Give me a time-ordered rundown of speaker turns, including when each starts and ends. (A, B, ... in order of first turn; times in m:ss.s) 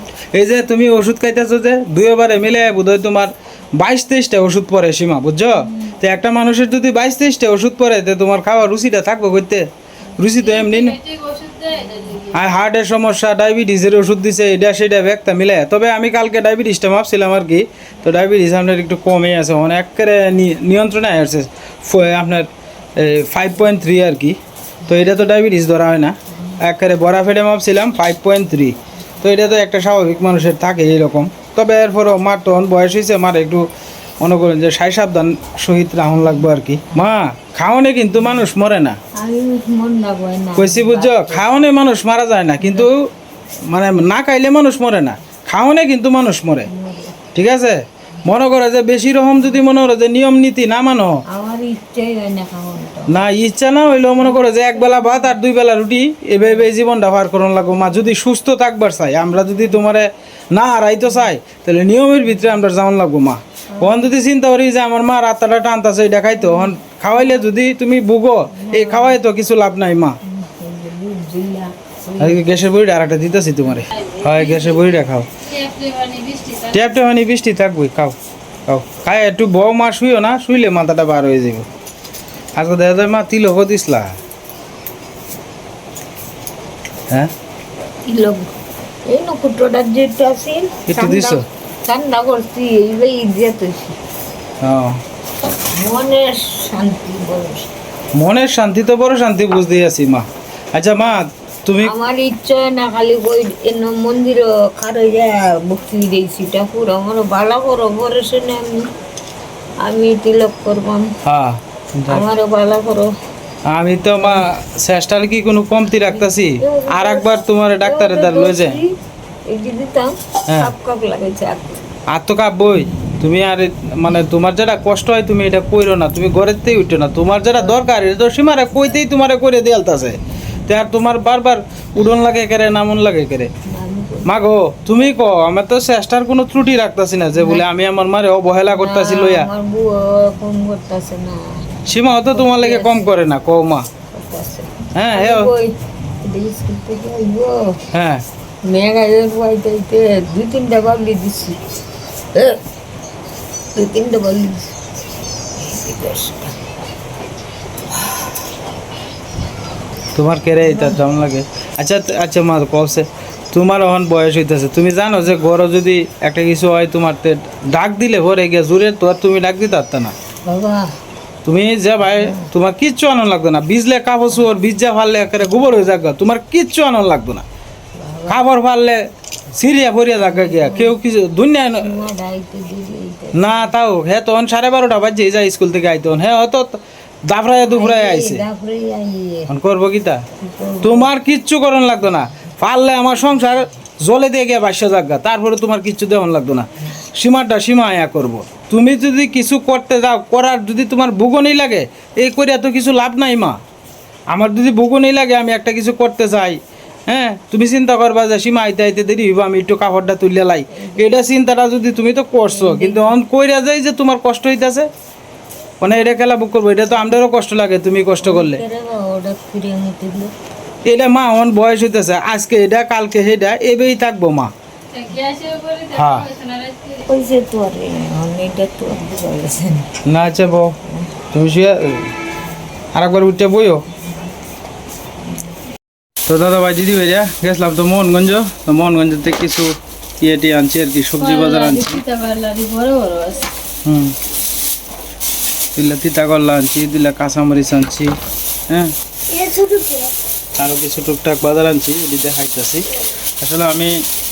0:00.3-0:11.0 A
0:10.4-0:12.4 B
0:12.3-0:33.7 A
0:34.2-0:39.0 A
0:39.2-0:41.5 C
0:40.6-0:43.1 A
0:42.6-0:42.9 C
0:43.7-0:46.7 A
0:46.7-0:47.2 C
0:47.3-0:51.2 A
0:51.3-0:53.2 C
0:53.1-1:10.2 A
0:54.2-0:55.3 C
1:03.8-1:04.1 C
1:08.6-1:09.2 C
1:10.2-1:12.4 C
1:12.2-1:15.3 A
1:13.9-1:17.0 B
1:16.7-1:18.2 A
1:18.7-1:21.7 A
1:22.6-1:24.2 A
1:28.1-1:28.5 C
1:29.1-1:34.0 C
1:30.9-1:31.4 A
1:34.6-1:35.0 A
1:35.8-1:37.7 C
1:38.2-1:41.9 A
1:41.8-1:48.9 C
1:49.8-1:51.1 C
1:51.2-1:52.3 A
1:52.1-1:53.1 C
1:53.7-1:58.8 A
1:56.1-1:59.0 C
1:59.5-2:01.8 C
2:02.1-2:13.5 A
2:13.7-2:14.4 C
2:14.3-2:19.5 A
2:17.3-2:17.6 C
2:18.7-2:21.4 C
2:21.9-2:23.9 A
2:22.3-2:23.1 C
2:24.1-2:27.8 C
2:25.0-2:25.5 A
2:27.9-2:28.2 A
2:28.7-2:31.6 C
2:32.3-2:32.6 C
2:33.7-2:34.8 C
2:35.6-2:36.6 C
2:40.2-2:50.2 A
2:40.6-2:41.0 C
2:50.5-2:50.9 C
2:51.4-2:57.4 A
2:52.2-2:52.5 C
2:58.0-2:58.4 C
2:58.3-3:02.0 A
3:00.2-3:01.0 C
3:01.8-3:03.7 C
3:03.4-3:08.4 A
3:07.7-3:09.5 C
3:09.5-3:10.2 A
3:10.4-3:11.1 C
3:10.8-3:23.6 A
3:24.3-3:34.9 A
3:30.8-3:31.2 C
3:32.5-3:33.2 C
3:35.8-3:38.6 A
3:38.2-3:40.3 C
3:40.8-3:44.5 A
3:44.9-3:47.1 B
3:45.9-3:46.3 A
3:47.1-3:49.9 C
3:50.0-3:50.8 A
3:51.3-3:52.1 A
3:52.9-3:53.8 A
3:56.3-4:02.0 A
4:01.2-4:03.4 B
4:03.8-4:04.2 A
4:05.8-4:08.1 A
4:09.3-4:10.1 C
4:10.6-4:12.9 A
4:13.4-4:14.0 A